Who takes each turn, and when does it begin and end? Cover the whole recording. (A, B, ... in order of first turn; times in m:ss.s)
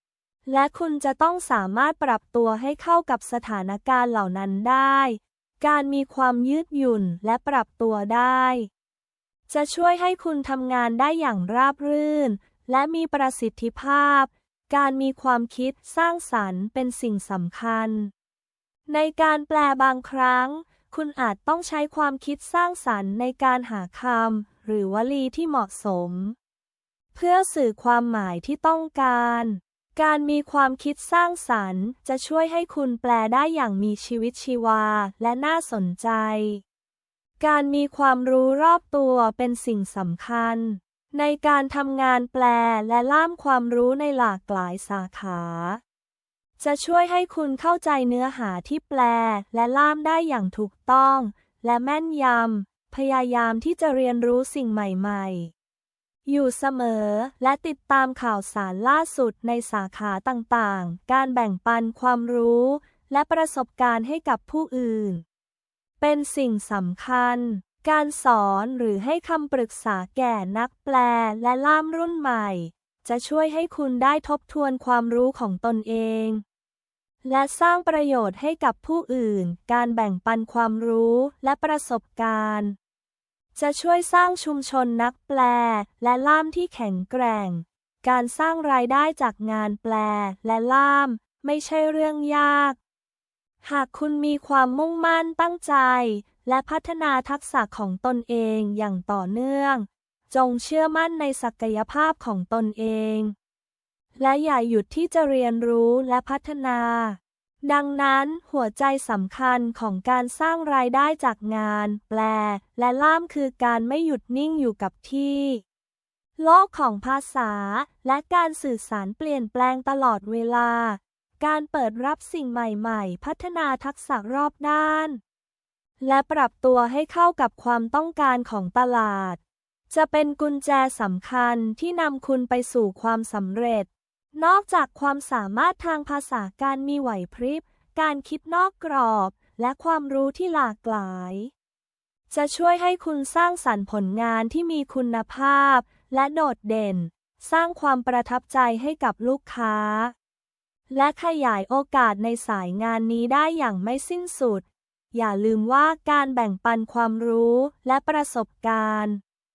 0:00.5-0:08.7 A
0:09.5-0:18.1 A
0:18.9-0:26.4 A
0:27.1-0:36.6 A
0:37.4-0:45.8 A
0:46.6-0:55.5 A
0:56.3-1:05.2 A
1:06.0-1:16.4 A
1:17.2-1:22.8 A
1:23.6-1:32.8 A
1:33.6-1:43.3 A
1:44.2-1:55.6 A
1:56.4-2:05.2 A
2:06.0-2:21.5 A
2:22.3-2:30.1 A
2:30.9-2:39.2 A